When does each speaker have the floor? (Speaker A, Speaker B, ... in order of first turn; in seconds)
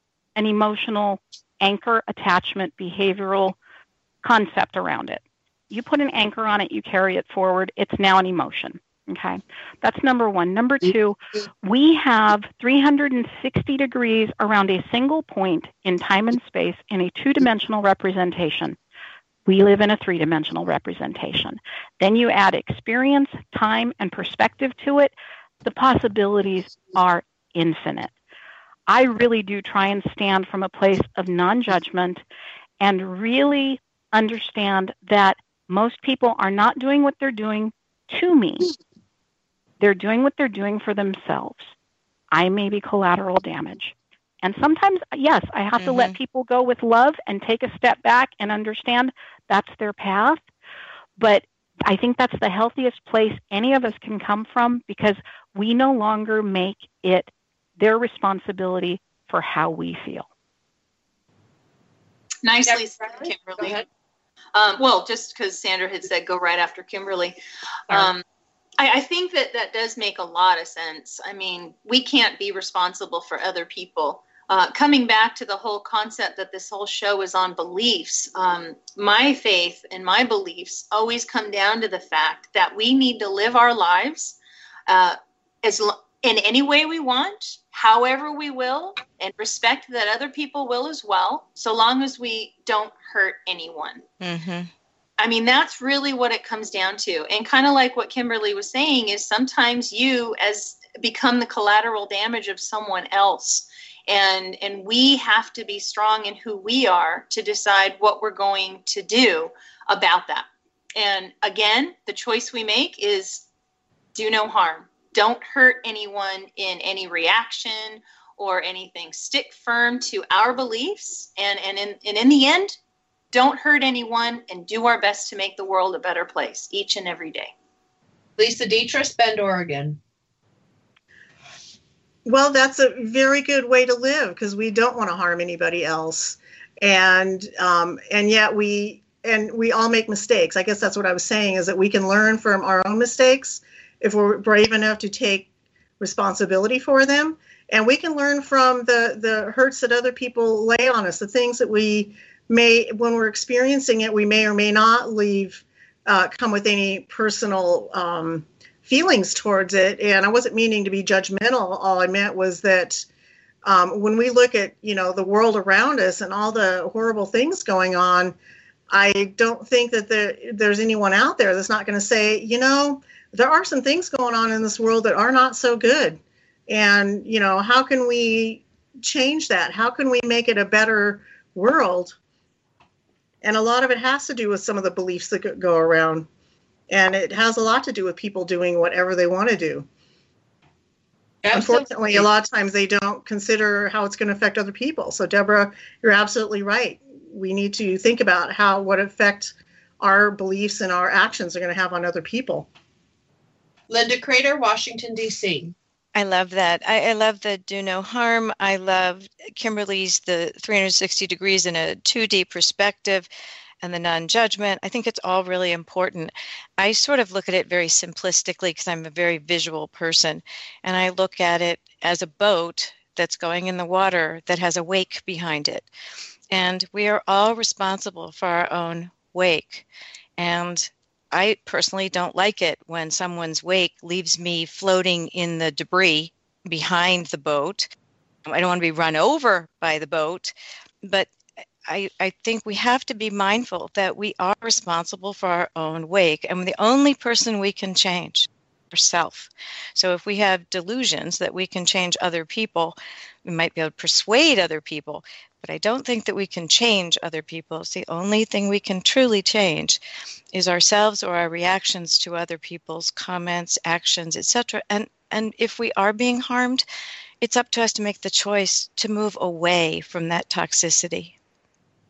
Speaker A: 0.3-3.6, 4.2-18.8, 19.5-28.1, 28.9-32.2, 32.8-38.7, 39.8-41.7, 42.3-50.4, 51.2-60.3
Speaker B: 45.8-46.2, 94.2-94.7, 206.2-213.3, 213.8-225.9, 226.5-229.8, 230.4-237.9, 238.5-241.3, 241.9-260.0, 260.5-266.9, 267.4-271.3
Speaker C: 62.4-63.8, 64.5-67.4, 67.9-68.2, 68.8-94.0, 95.2-113.5, 114.1-122.8, 123.3-127.5
Speaker D: 62.7-63.9, 128.4-130.0, 191.4-192.3, 203.9-205.8
Speaker E: 132.2-145.5, 146.0-163.1, 163.7-168.3, 168.9-182.2, 183.4-186.3, 186.9-189.9, 191.5-202.7